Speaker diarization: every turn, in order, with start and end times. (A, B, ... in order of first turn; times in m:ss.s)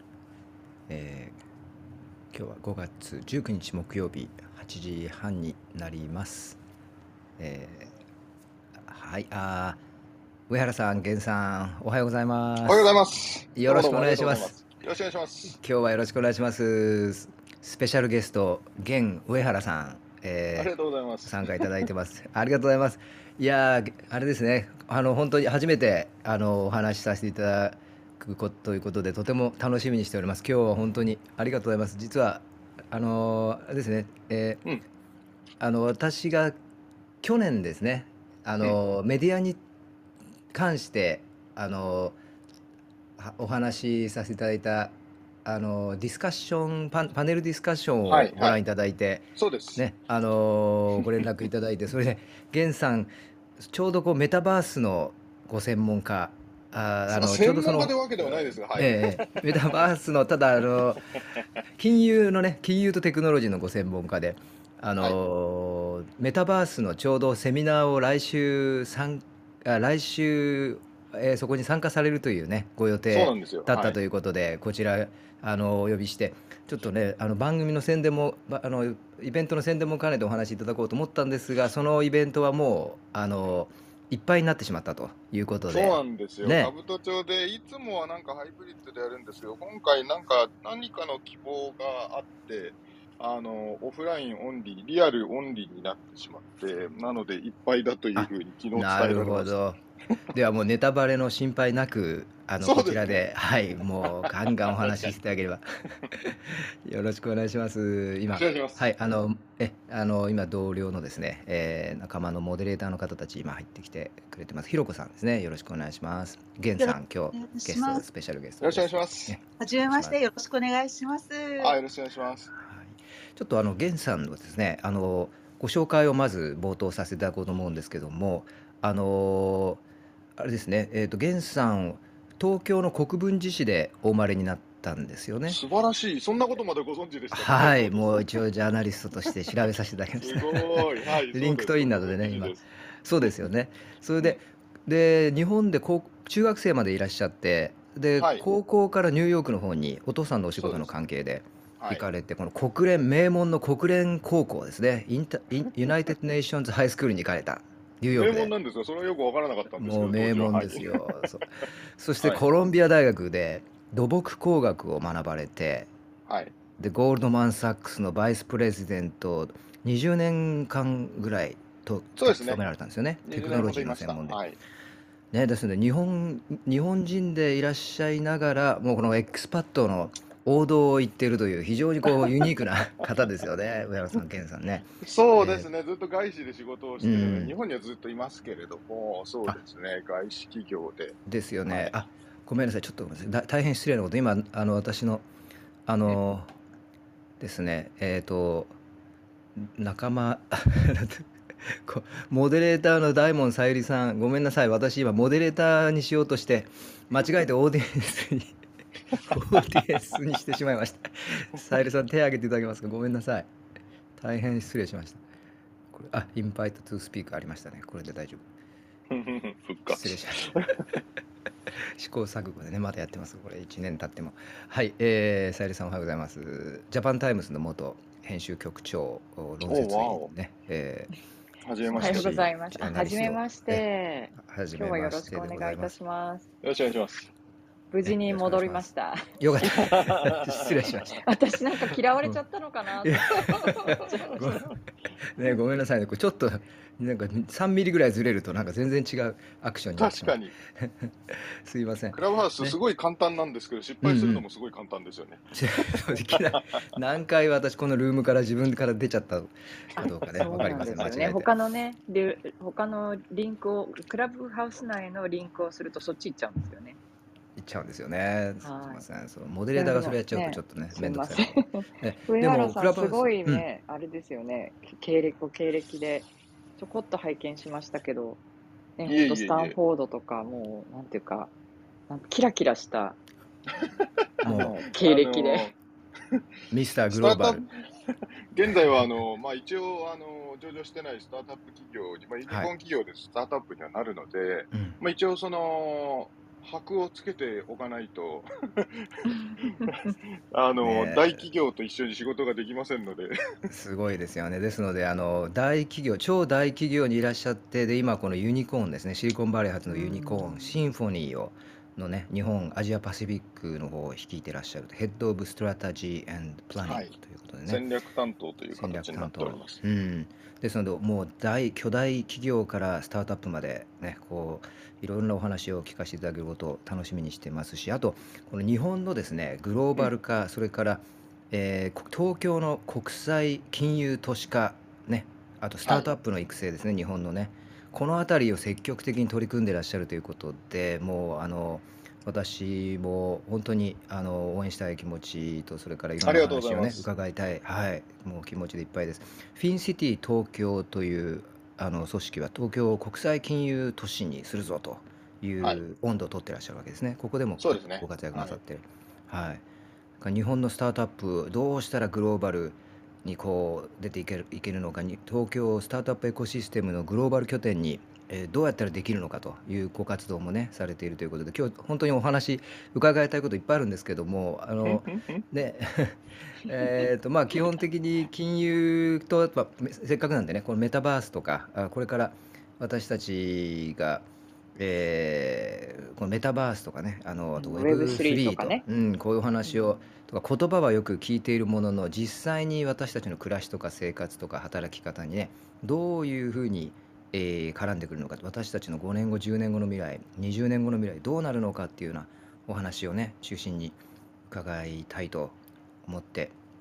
0:00.9-0:01.4 A
0:02.3-0:06.6 A
0:07.4-0:07.9 A
0:08.8-0:09.8 A
0:10.5-0:12.9 A
0:12.6-0:15.6 B
0:13.6-0:14.6 A
0:15.6-0:20.7 A
0:20.6-0:21.8 B
0:21.2-0:34.6 A
0:35.6-0:36.6 A
0:37.2-0:39.6 A
0:40.5-0:42.2 A
0:43.2-1:01.0 A
0:48.1-0:48.6 B
0:49.4-0:49.8 B
0:57.1-0:59.7 B
1:01.8-1:26.7 A
1:13.1-1:14.0 B
1:25.7-1:39.6 B
1:38.2-2:00.2 A
1:42.6-1:43.2 B
1:44.0-1:45.1 B
1:48.3-1:48.8 B
1:56.8-1:58.0 C
1:58.6-1:59.4 B
1:59.6-2:01.8 C
2:01.6-2:02.5 B
2:02.5-2:09.8 A
2:10.4-2:15.6 A
2:15.5-2:18.4 B
2:17.3-2:38.5 A
2:20.2-2:22.7 B
2:28.2-2:28.4 B
2:30.6-2:30.9 B
2:31.8-2:32.0 B
2:38.1-2:41.0 B
2:39.8-2:45.9 A
2:46.3-2:46.6 B
2:46.8-2:54.4 A
2:52.2-2:52.7 B
2:53.2-2:54.6 B
2:55.3-3:05.7 A
3:05.0-3:12.0 B
3:07.0-3:07.5 A
3:11.3-3:15.3 A
3:15.9-3:16.6 A
3:17.4-3:18.8 A
3:19.6-3:28.6 A
3:29.2-3:33.5 A
3:34.2-3:35.2 A
3:35.9-3:38.5 A
3:39.1-3:40.8 B
3:39.9-3:41.0 A
3:41.7-3:51.1 A
3:49.7-3:50.3 B
3:51.6-3:52.5 B
3:51.9-3:53.8 A
3:51.9-3:56.5 D
3:54.4-3:55.9 A
3:56.6-3:57.3 B
3:57.9-3:59.4 D
3:58.0-3:58.9 A
3:59.4-4:01.2 A
3:59.7-4:00.9 B
4:01.0-4:04.6 D
4:03.0-4:04.7 A
4:04.3-4:04.6 B
4:05.2-4:12.8 A
4:10.0-4:10.6 B
4:12.1-4:16.8 B
4:14.0-4:14.4 A
4:15.5-4:21.5 A
4:20.0-4:21.2 B
4:20.4-4:27.0 D
4:27.6-4:33.7 A
4:28.6-4:29.0 D
4:29.7-4:38.4 D
4:39.0-4:41.5 D
4:39.1-4:39.8 B
4:42.1-4:43.2 D
4:43.8-4:45.8 B
4:44.4-4:44.7 A
4:44.4-4:45.7 D
4:46.7-4:47.6 A
4:47.1-5:03.7 B
4:54.7-4:55.0 A
5:00.8-5:01.5 A
5:03.7-5:17.8 A
5:09.9-5:10.8 D
5:16.8-5:17.2 B
5:17.7-5:19.8 B
5:18.8-5:59.6 A
5:46.2-5:47.1 B
5:57.6-5:58.6 B
6:00.2-6:44.0 A
6:14.8-6:15.4 B
6:27.6-6:28.8 D
6:44.5-6:46.6 A